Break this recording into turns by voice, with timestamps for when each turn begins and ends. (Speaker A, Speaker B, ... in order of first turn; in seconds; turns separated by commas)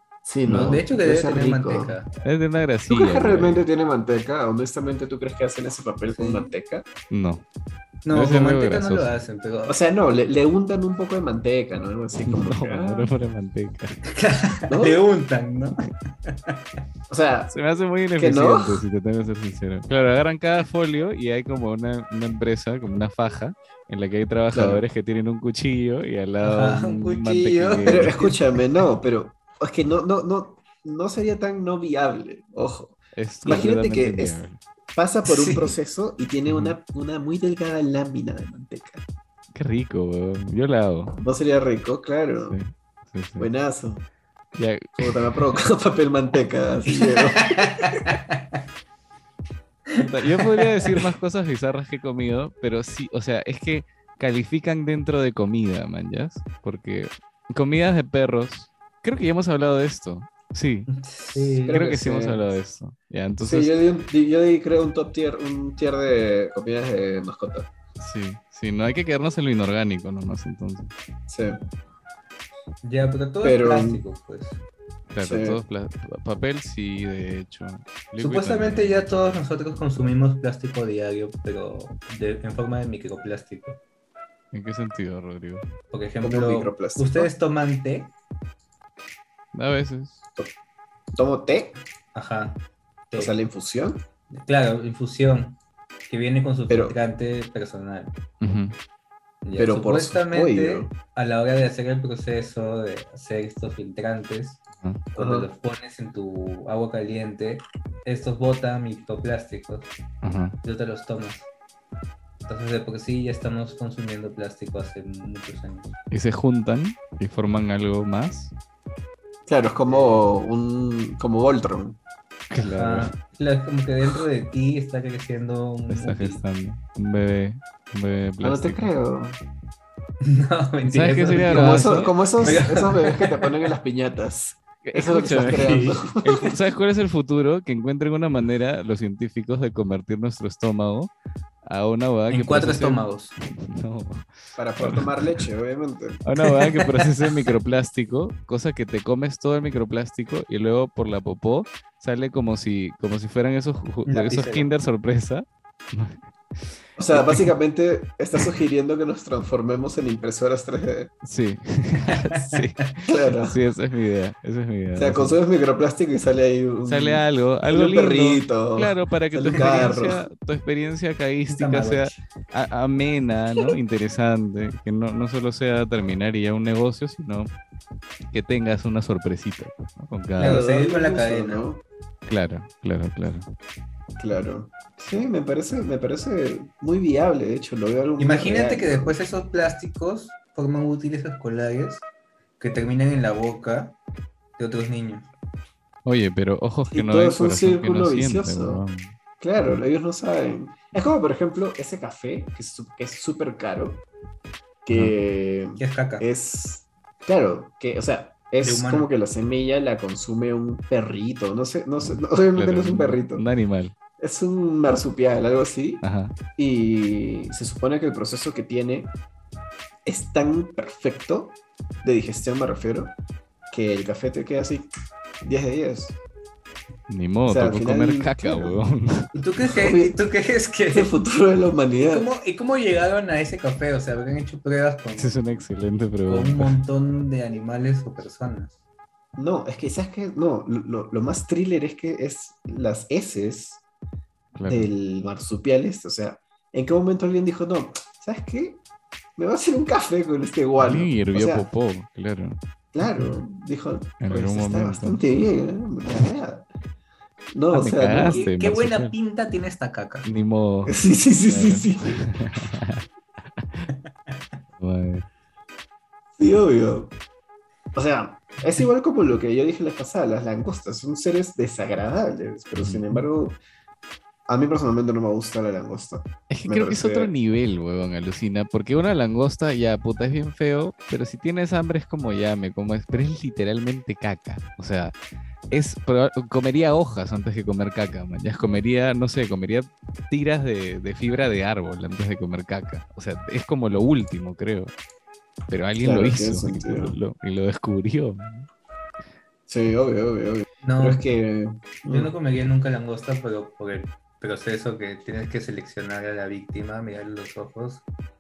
Speaker A: 0.2-1.9, Speaker B: 0.5-2.1, Speaker C: 2.2-3.6, Speaker A: 2.9-6.8, Speaker B: 6.2-6.5, Speaker C: 7.1-7.5, Speaker B: 8.1-9.8, Speaker C: 8.1-9.1, Speaker A: 9.7-13.1, Speaker C: 12.2-14.0, Speaker B: 14.1-16.6, Speaker A: 14.7-15.0, Speaker A: 17.1-17.5, Speaker C: 17.5-28.2, Speaker A: 18.2-18.8, Speaker A: 24.5-24.8, Speaker B: 26.4-28.4, Speaker A: 27.9-34.4, Speaker C: 33.2-34.6, Speaker A: 35.0-39.0, Speaker B: 35.2-35.8, Speaker C: 36.5-36.8, Speaker C: 39.5-41.2, Speaker A: 41.2-42.6, Speaker C: 42.5-43.5, Speaker A: 43.4-44.1, Speaker C: 44.5-45.1, Speaker A: 45.0-48.0, Speaker B: 47.0-48.4, Speaker B: 49.9-51.0, Speaker C: 50.0-60.9, Speaker B: 60.9-61.8, Speaker C: 61.5-63.8, Speaker A: 61.6-62.5, Speaker A: 63.5-67.7, Speaker C: 68.0-70.9, Speaker A: 71.3-71.6, Speaker B: 72.8-74.6, Speaker A: 73.4-74.0, Speaker C: 75.1-79.4, Speaker A: 75.2-75.6, Speaker B: 78.2-83.8, Speaker C: 84.5-85.7, Speaker B: 85.9-88.1, Speaker A: 86.2-87.3, Speaker C: 89.5-90.2, Speaker A: 91.1-91.8, Speaker B: 92.2-93.3, Speaker A: 93.2-94.0, Speaker B: 94.3-98.1, Speaker A: 96.7-97.0, Speaker C: 98.4-98.8, Speaker B: 99.4-104.6, Speaker A: 99.6-100.9, Speaker B: 105.2-109.9, Speaker A: 105.2-105.5, Speaker C: 110.2-110.6, Speaker B: 110.6-111.5, Speaker B: 112.5-115.9, Speaker C: 116.1-118.5, Speaker A: 119.5-122.0, Speaker B: 119.9-120.3, Speaker C: 122.5-123.2, Speaker B: 122.7-126.4, Speaker C: 125.9-128.9, Speaker A: 128.4-129.4, Speaker B: 130.2-133.7, Speaker C: 130.9-132.3, Speaker A: 131.3-136.5, Speaker C: 134.8-141.1, Speaker B: 135.5-136.0, Speaker C: 141.7-145.4, Speaker B: 142.3-143.3, Speaker A: 144.6-146.2, Speaker C: 146.2-157.4, Speaker B: 146.4-147.1, Speaker B: 154.1-154.7, Speaker A: 157.0-161.1, Speaker C: 161.2-165.4, Speaker B: 162.1-162.6, Speaker A: 163.1-163.6, Speaker A: 165.0-170.2, Speaker C: 166.9-177.5, Speaker B: 171.5-172.2, Speaker C: 178.3-180.6, Speaker B: 180.4-181.7, Speaker A: 180.4-181.8, Speaker C: 182.3-183.5, Speaker A: 184.2-189.2, Speaker B: 188.2-192.1, Speaker B: 192.6-194.0, Speaker B: 194.6-195.3, Speaker C: 196.1-199.2, Speaker A: 196.9-198.8, Speaker A: 199.4-204.1, Speaker A: 204.8-213.4, Speaker B: 205.8-206.3, Speaker B: 208.6-209.1, Speaker C: 212.6-214.0, Speaker A: 214.2-216.0, Speaker C: 216.0-216.4, Speaker A: 216.6-219.1, Speaker A: 220.1-223.2, Speaker A: 223.7-224.9, Speaker A: 225.4-226.2, Speaker C: 227.1-229.3, Speaker A: 227.5-228.8, Speaker B: 229.3-231.1, Speaker A: 229.7-230.2, Speaker A: 230.9-232.3, Speaker B: 232.0-235.6, Speaker C: 235.2-236.8, Speaker B: 236.3-238.7, Speaker A: 239.4-243.8, Speaker C: 244.6-244.9, Speaker A: 244.7-248.8, Speaker A: 249.4-251.7, Speaker C: 250.8-252.6, Speaker A: 252.9-256.7, Speaker C: 254.2-255.2, Speaker A: 257.5-258.5, Speaker C: 257.7-259.2, Speaker B: 258.1-260.3, Speaker C: 260.2-263.1, Speaker A: 260.9-262.3, Speaker C: 263.6-263.9, Speaker C: 264.8-265.3, Speaker A: 266.4-267.1, Speaker A: 267.9-273.6, Speaker C: 272.8-273.2, Speaker A: 274.5-277.3, Speaker C: 276.5-285.2, Speaker C: 285.7-294.9, Speaker C: 295.7-298.7, Speaker A: 296.0-297.2, Speaker A: 299.7-302.3, Speaker B: 300.8-301.2, Speaker B: 302.1-308.1